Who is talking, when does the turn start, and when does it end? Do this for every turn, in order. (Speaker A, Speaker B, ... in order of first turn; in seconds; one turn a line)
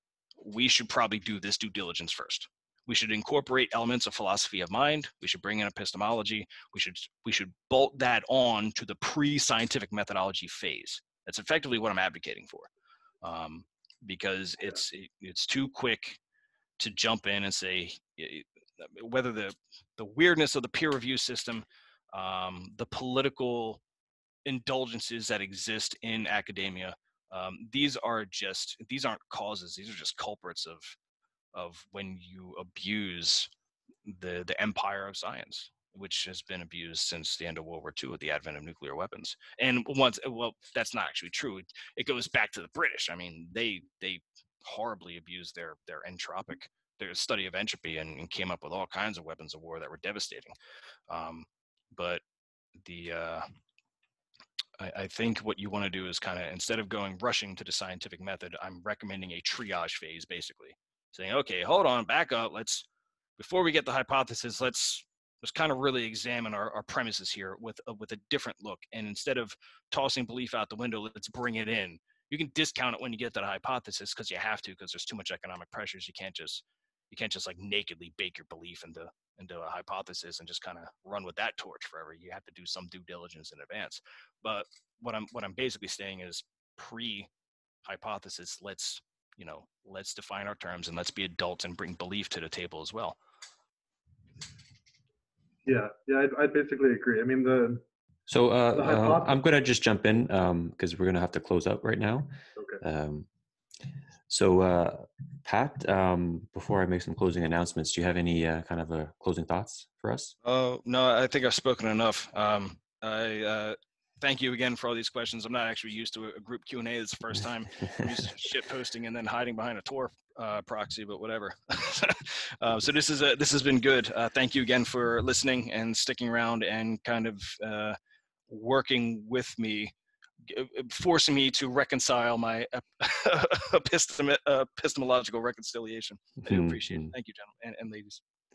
Speaker A: 0.4-12.7
Speaker A: 13.2-16.2
Speaker A: 16.8-23.8
Speaker A: 24.4-30.9
Speaker A: 31.5-33.5
Speaker A: 34.0-50.5
Speaker A: 51.1-52.2
Speaker A: 52.8-53.5
Speaker A: 54.8-62.9
Speaker A: 63.4-87.3
Speaker A: 87.8-93.2
Speaker B: 95.6-97.8
Speaker C: 98.3-103.3
Speaker B: 98.7-99.3
Speaker C: 104.3-110.3
Speaker A: 110.4-128.0
Speaker A: 128.5-129.9
Speaker A: 130.4-138.2
Speaker C: 136.4-137.1